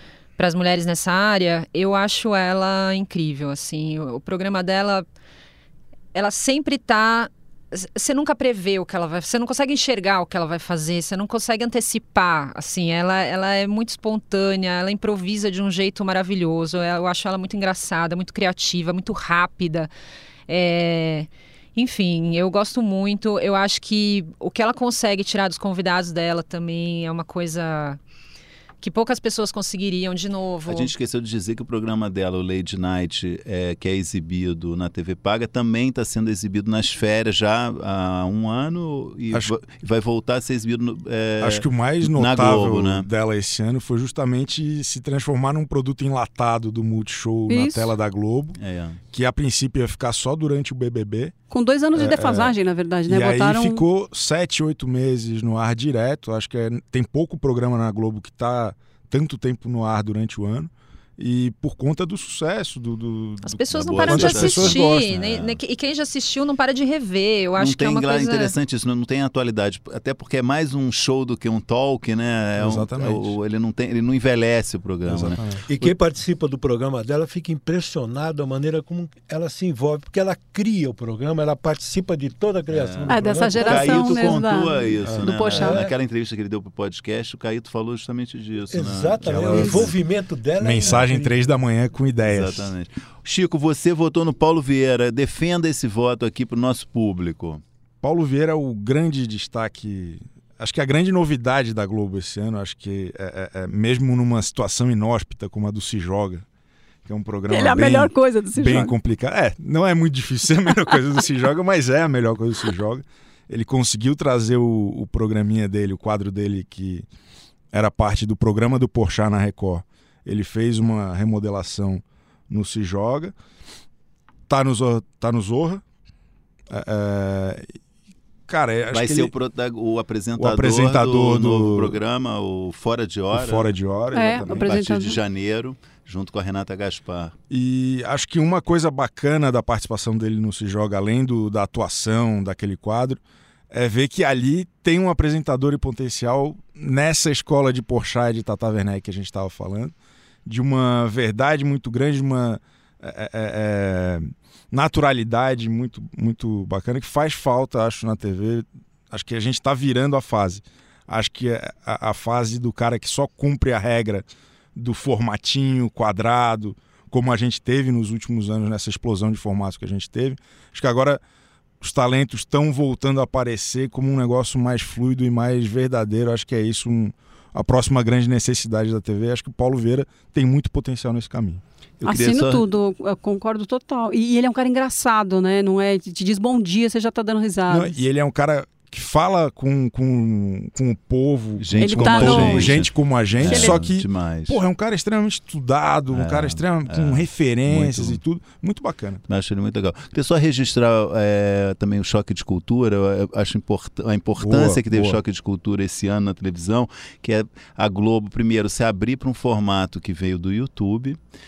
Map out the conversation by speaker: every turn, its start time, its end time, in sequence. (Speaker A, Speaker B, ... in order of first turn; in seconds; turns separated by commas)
Speaker A: 0.4-5.0, Speaker A: 6.1-19.9, Speaker A: 20.5-28.0, Speaker A: 28.8-30.9, Speaker B: 30.7-43.1, Speaker C: 41.4-48.6, Speaker D: 47.5-47.9, Speaker B: 48.6-49.0, Speaker C: 49.1-51.3, Speaker D: 51.5-53.8, Speaker C: 51.9-52.5, Speaker C: 53.1-65.0, Speaker A: 63.4-68.5, Speaker B: 64.0-65.6, Speaker B: 67.6-75.9, Speaker C: 72.6-73.3, Speaker C: 75.1-75.6, Speaker E: 75.7-84.7, Speaker B: 82.7-89.9, Speaker D: 83.1-85.8, Speaker C: 85.0-85.3, Speaker E: 85.5-85.9, Speaker E: 88.7-91.3, Speaker C: 89.2-89.9, Speaker D: 89.5-89.8, Speaker C: 90.6-92.7, Speaker B: 92.2-97.6, Speaker C: 98.0-106.4, Speaker C: 107.0-117.0, Speaker D: 107.5-108.9, Speaker C: 117.7-123.3, Speaker C: 124.5-125.8, Speaker C: 126.7-127.7, Speaker C: 128.5-129.3, Speaker B: 128.9-133.7, Speaker C: 130.4-132.0, Speaker C: 133.3-134.7, Speaker D: 134.1-135.2, Speaker B: 134.5-137.3, Speaker C: 137.5-143.2, Speaker C: 143.7-149.9, Speaker C: 150.4-171.2, Speaker C: 171.8-181.6, Speaker B: 182.0-182.6, Speaker D: 182.0-187.9, Speaker C: 187.7-199.2, Speaker B: 191.6-194.6, Speaker D: 191.8-192.8, Speaker D: 193.4-193.8, Speaker B: 196.1-198.2, Speaker B: 199.3-211.2, Speaker C: 204.4-205.2